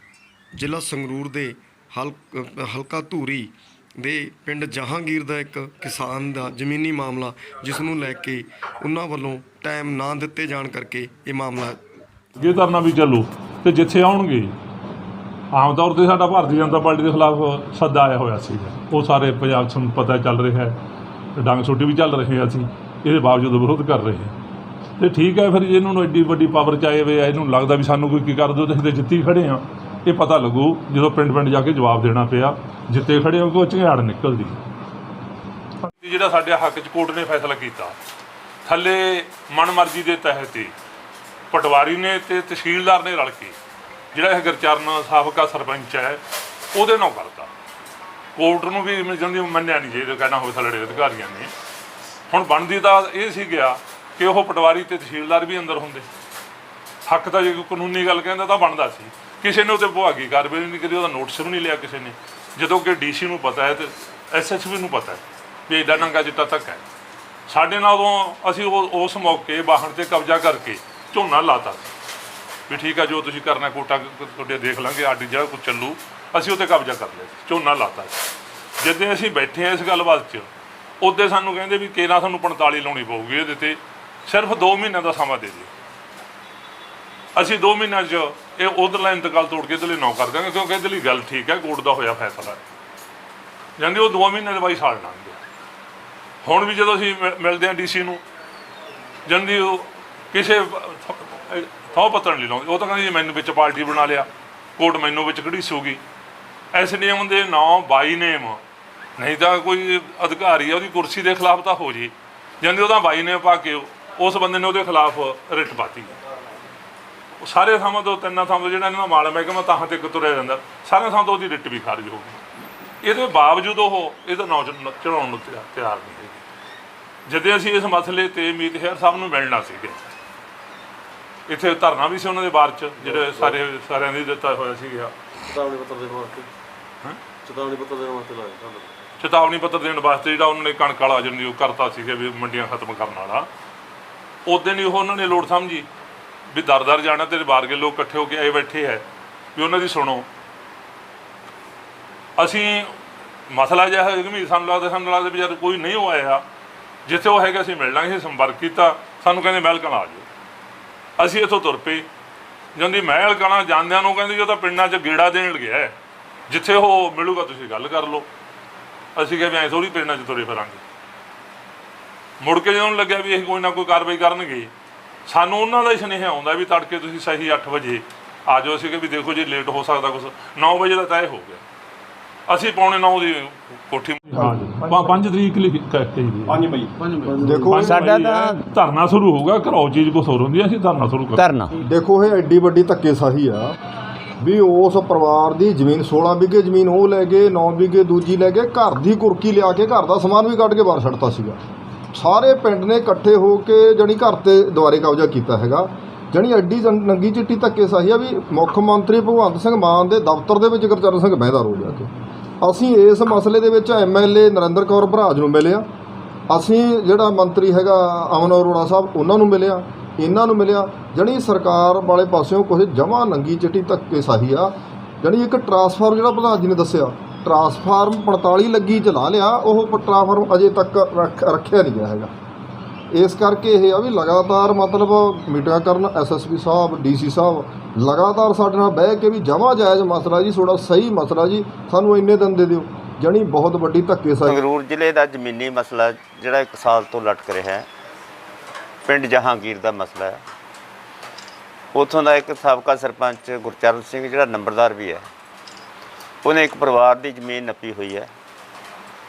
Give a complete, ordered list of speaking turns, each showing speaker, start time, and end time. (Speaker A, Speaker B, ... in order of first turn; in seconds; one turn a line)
Speaker A: 0.6-11.8
Speaker B: 12.4-14.5
Speaker B: 15.5-20.8
Speaker B: 21.4-24.3
Speaker B: 25.0-34.6
Speaker B: 35.9-38.0
Speaker B: 38.7-40.7
Speaker B: 41.5-43.5
Speaker B: 44.1-46.2
Speaker B: 46.7-47.5
Speaker B: 48.4-51.5
Speaker B: 52.3-56.1
Speaker B: 57.1-66.8
Speaker B: 67.5-71.9
Speaker B: 72.7-78.2
Speaker B: 78.8-80.5
Speaker B: 81.0-85.7
Speaker B: 87.3-92.6
Speaker B: 93.8-95.4
Speaker B: 96.4-98.2
Speaker B: 99.3-106.0
Speaker B: 106.7-108.6
Speaker B: 109.2-116.1
Speaker B: 117.4-122.4
Speaker B: 123.0-126.4
Speaker B: 127.3-130.0
Speaker B: 131.5-135.1
Speaker C: 133.1-133.5
Speaker C: 135.4-136.5
Speaker C: 137.4-138.9
Speaker B: 139.2-143.5
Speaker B: 144.5-145.9
Speaker B: 146.5-149.1
Speaker B: 149.6-150.3
Speaker B: 152.4-152.9
Speaker B: 153.5-156.4
Speaker B: 157.1-160.3
Speaker B: 161.2-162.1
Speaker B: 162.8-166.0
Speaker B: 166.5-168.3
Speaker B: 169.2-170.8
Speaker B: 172.4-174.7
Speaker B: 175.3-181.6
Speaker B: 182.5-186.7
Speaker C: 187.0-187.4
Speaker D: 187.3-188.1
Speaker B: 187.7-191.4
Speaker E: 187.8-188.6
Speaker E: 191.3-191.8
Speaker D: 191.8-193.7
Speaker D: 194.4-201.6
Speaker D: 202.1-212.1
Speaker D: 212.6-215.8
Speaker D: 216.5-232.3
Speaker D: 233.1-244.6
Speaker E: 244.4-247.9
Speaker E: 249.1-250.4
Speaker E: 251.9-255.2
Speaker E: 256.4-258.3